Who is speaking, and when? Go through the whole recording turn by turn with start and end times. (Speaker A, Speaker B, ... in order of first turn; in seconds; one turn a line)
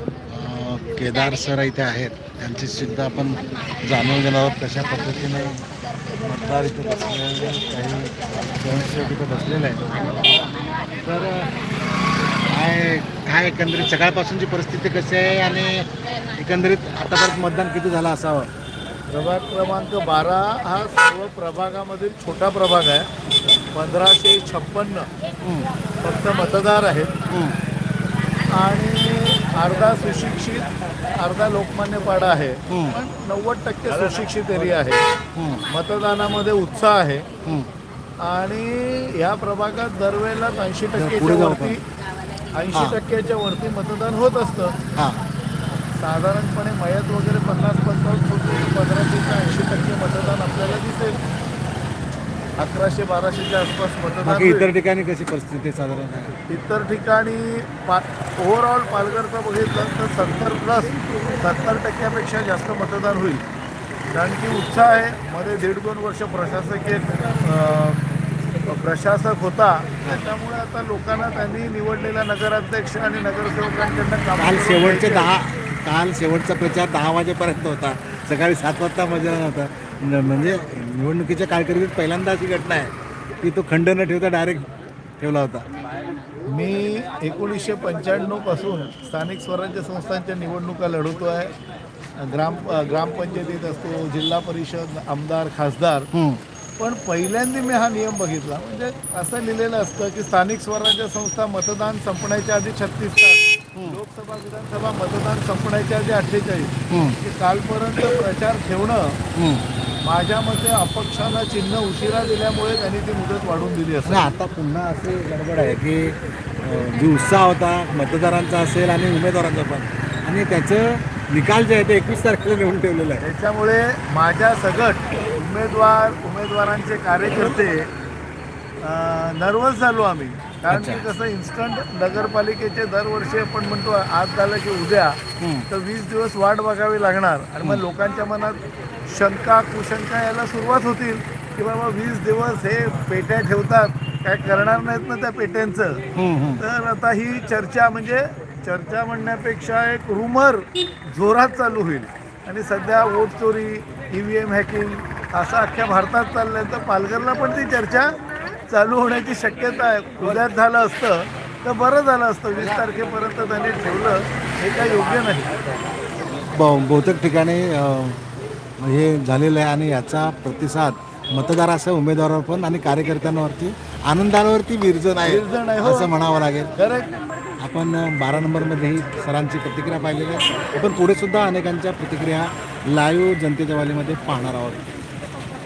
Speaker A: 0.3-5.6
Speaker A: 6.3-10.3
Speaker A: 11.0-11.5
Speaker A: 12.5-18.5
Speaker B: 19.1-23.1
Speaker B: 23.7-25.1
Speaker B: 26.0-27.1
Speaker A: 27.3-27.6
Speaker B: 28.5-30.7
Speaker B: 31.2-35.0
Speaker A: 32.7-32.9
Speaker A: 35.4-35.6
Speaker B: 35.7-37.3
Speaker B: 38.2-41.8
Speaker A: 41.0-41.8
Speaker B: 42.5-44.8
Speaker A: 45.0-45.2
Speaker B: 46.0-51.2
Speaker B: 52.6-54.7
Speaker A: 54.2-56.4
Speaker B: 56.5-63.4
Speaker B: 64.1-68.0
Speaker B: 68.7-75.3
Speaker A: 74.4-84.7
Speaker A: 85.2-85.7
Speaker B: 86.5-91.5
Speaker B: 92.2-96.1
Speaker A: 96.1-96.4
Speaker B: 96.8-109.2
Speaker A: 106.9-107.2
Speaker A: 109.3-109.6
Speaker B: 110.0-114.3
Speaker A: 114.0-123.3
Speaker B: 123.2-127.9
Speaker B: 128.8-135.2
Speaker A: 130.7-131.0
Speaker A: 135.4-135.7
Speaker B: 135.7-146.0
Speaker A: 146.2-146.6
Speaker B: 146.6-158.2
Speaker B: 158.7-165.5
Speaker A: 166.5-168.2
Speaker A: 168.8-176.7
Speaker B: 175.2-176.1
Speaker B: 176.8-177.1
Speaker A: 177.6-184.8